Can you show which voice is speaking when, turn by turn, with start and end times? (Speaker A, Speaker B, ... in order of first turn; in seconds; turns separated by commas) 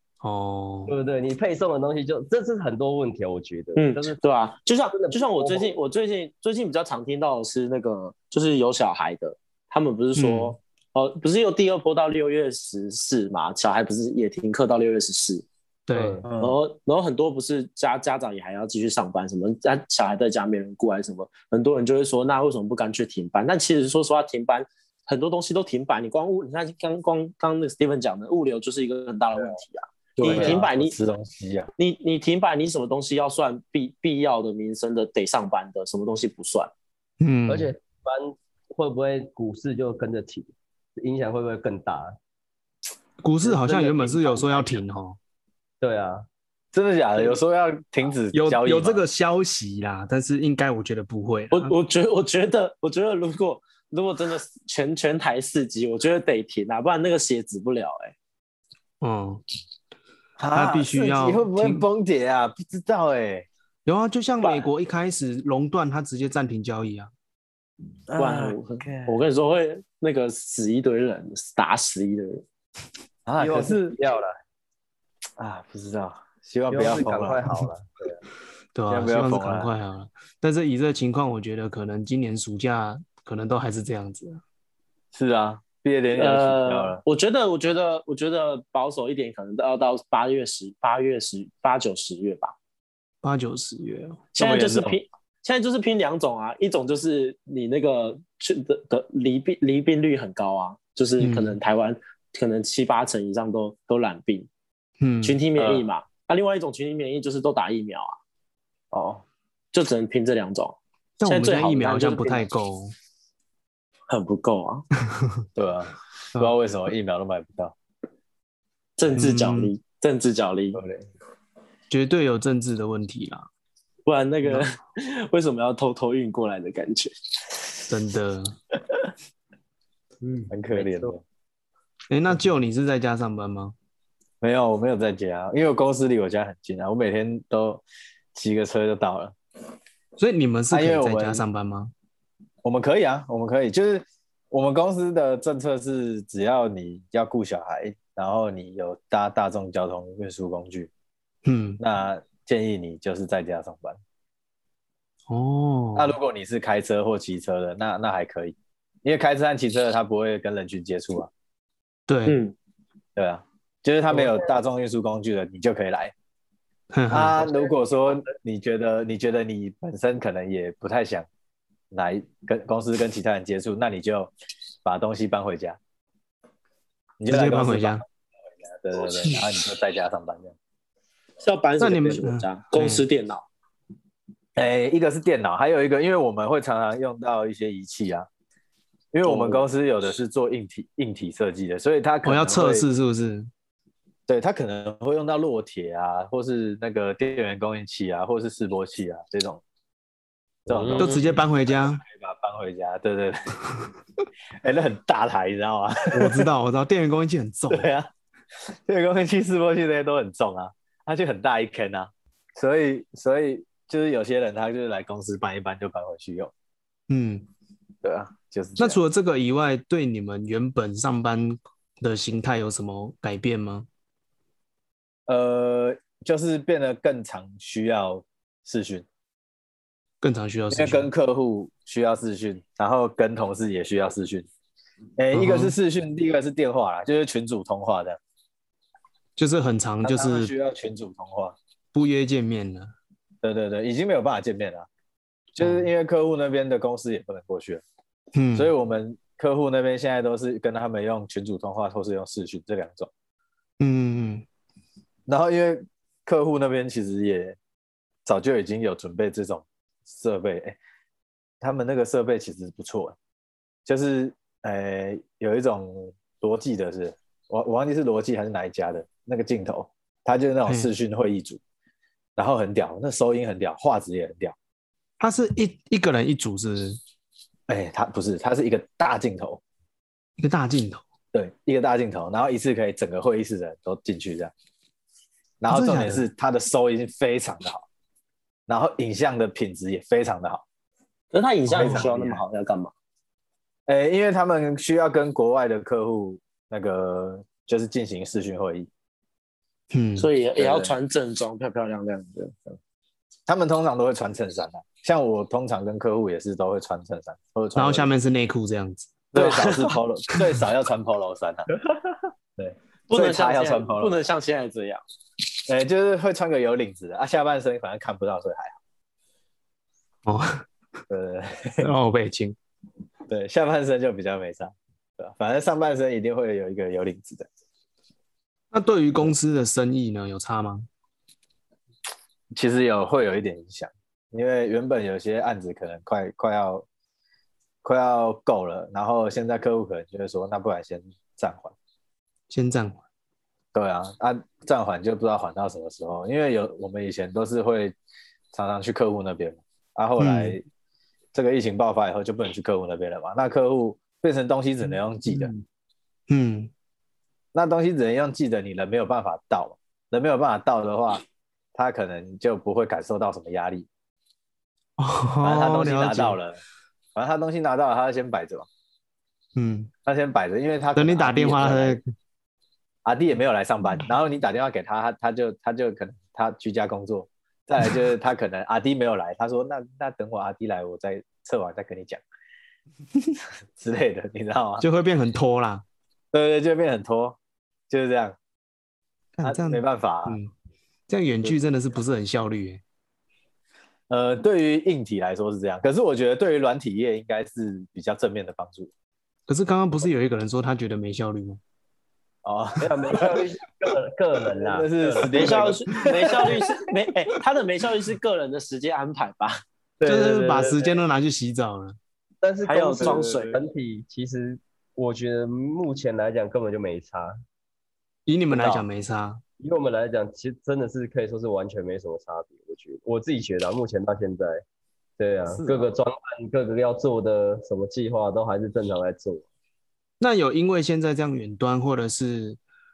Speaker A: 0.2-0.9, Speaker B: 0.9-4.2, Speaker C: 3.8-15.5, Speaker B: 4.9-5.8, Speaker A: 10.2-10.6, Speaker A: 15.9-16.3, Speaker B: 15.9-16.3, Speaker D: 16.2-16.6, Speaker C: 16.4-30.9, Speaker D: 30.2-31.7, Speaker B: 30.2-30.6, Speaker C: 31.8-36.7, Speaker A: 37.2-37.7, Speaker B: 37.5-42.2, Speaker A: 43.2-45.2, Speaker B: 43.4-44.8, Speaker B: 45.8-46.2, Speaker D: 46.7-49.0, Speaker A: 48.3-51.7, Speaker C: 51.5-58.1, Speaker A: 59.0-59.4, Speaker D: 60.4-63.5, Speaker A: 60.5-61.9, Speaker A: 63.9-67.1, Speaker C: 64.4-64.7, Speaker D: 68.1-69.2, Speaker C: 68.2-72.4, Speaker D: 73.3-74.0, Speaker B: 73.4-74.4, Speaker D: 75.4-77.5, Speaker B: 76.7-78.2, Speaker A: 78.7-84.4, Speaker D: 78.9-79.7, Speaker D: 85.1-87.0, Speaker C: 86.2-92.5, Speaker A: 93.2-94.3, Speaker C: 94.3-104.5, Speaker D: 94.4-95.0, Speaker A: 101.2-101.6, Speaker A: 105.0-105.4, Speaker C: 105.2-108.2, Speaker D: 105.6-105.9, Speaker D: 108.9-109.2, Speaker C: 109.7-112.5, Speaker A: 111.2-112.9, Speaker C: 114.1-114.8, Speaker A: 115.2-115.4, Speaker D: 115.6-117.8, Speaker C: 119.0-120.8, Speaker A: 119.1-119.7, Speaker D: 120.7-121.1, Speaker A: 121.9-123.5, Speaker C: 124.1-127.1, Speaker A: 127.9-128.6, Speaker B: 130.2-131.1, Speaker D: 130.5-131.2, Speaker A: 132.1-133.8, Speaker D: 134.4-139.3, Speaker A: 140.2-141.9, Speaker D: 140.7-141.4, Speaker D: 142.6-150.9, Speaker A: 151.4-151.8, Speaker D: 151.8-154.0, Speaker A: 155.3-156.1, Speaker D: 155.9-161.3, Speaker A: 162.1-162.4, Speaker C: 162.3-162.5, Speaker D: 163.2-166.1, Speaker A: 166.9-167.5, Speaker D: 167.1-171.3, Speaker B: 167.4-168.3, Speaker D: 171.9-174.3, Speaker D: 174.8-175.8, Speaker D: 177.2-178.0, Speaker A: 177.3-178.0, Speaker D: 178.7-180.6, Speaker C: 181.4-183.5, Speaker A: 181.8-183.1, Speaker D: 184.6-188.3, Speaker D: 189.1-192.9, Speaker C: 189.3-189.6, Speaker A: 192.2-193.5, Speaker D: 194.3-199.6, Speaker B: 200.7-201.2, Speaker D: 200.7-203.5, Speaker A: 201.0-202.0, Speaker D: 204.6-206.5, Speaker A: 206.1-207.9, Speaker D: 207.7-208.1, Speaker D: 208.7-216.5, Speaker A: 217.1-217.5, Speaker D: 218.0-219.0, Speaker A: 218.8-223.9, Speaker D: 225.3-229.1, Speaker A: 230.2-231.1, Speaker D: 230.7-234.5, Speaker D: 235.2-238.2, Speaker A: 235.3-235.8, Speaker A: 239.4-240.5, Speaker D: 240.0-241.6, Speaker A: 241.9-242.9, Speaker D: 243.4-244.9, Speaker D: 245.5-247.8, Speaker A: 245.6-245.9, Speaker A: 248.3-248.7, Speaker D: 248.5-253.1, Speaker A: 253.8-254.4, Speaker D: 255.3-257.6, Speaker D: 258.3-260.8, Speaker D: 261.6-263.2, Speaker D: 263.9-271.6, Speaker D: 272.4-274.6, Speaker A: 275.2-277.0, Speaker D: 277.7-279.6, Speaker A: 280.4-281.0, Speaker D: 281.3-284.5, Speaker D: 285.6-287.9, Speaker A: 285.7-286.3, Speaker D: 288.7-290.6, Speaker C: 291.3-292.9, Speaker D: 291.7-292.4, Speaker A: 291.8-292.0, Speaker D: 293.9-298.9, Speaker A: 299.9-300.3, Speaker C: 300.2-302.8, Speaker D: 300.6-301.0, Speaker D: 303.5-308.1, Speaker A: 307.8-309.2, Speaker D: 309.3-311.7, Speaker C: 309.4-309.9, Speaker D: 312.6-314.2, Speaker C: 313.1-315.0, Speaker D: 315.7-318.8, Speaker A: 320.2-320.7, Speaker D: 321.1-321.9, Speaker A: 321.8-322.6, Speaker D: 323.3-327.5, Speaker A: 328.7-330.9, Speaker D: 332.6-336.9, Speaker D: 337.8-341.7, Speaker A: 342.5-343.0, Speaker D: 343.7-348.0, Speaker D: 348.5-350.6, Speaker A: 350.2-350.6, Speaker D: 351.3-355.5, Speaker A: 356.3-356.7, Speaker D: 357.5-361.2, Speaker D: 361.8-363.9, Speaker A: 365.0-366.4, Speaker D: 365.4-366.6, Speaker D: 367.1-368.7, Speaker A: 369.6-369.9, Speaker D: 370.1-372.0, Speaker A: 371.0-372.0, Speaker D: 373.1-382.2, Speaker D: 383.8-384.9, Speaker A: 384.8-385.8, Speaker D: 386.3-387.4, Speaker D: 387.9-388.4, Speaker A: 389.4-390.5, Speaker D: 389.4-390.4, Speaker A: 391.1-392.8, Speaker D: 394.1-398.9, Speaker A: 399.5-401.6, Speaker D: 402.4-403.4, Speaker B: 402.8-405.8, Speaker D: 404.6-406.7, Speaker C: 405.3-409.6, Speaker B: 410.0-411.0, Speaker A: 410.1-412.0, Speaker B: 412.4-417.4, Speaker C: 412.7-413.6, Speaker D: 413.0-413.4, Speaker A: 418.3-419.4, Speaker D: 418.5-418.9, Speaker B: 419.6-424.6, Speaker B: 425.2-429.4, Speaker D: 425.5-425.9, Speaker A: 430.2-432.6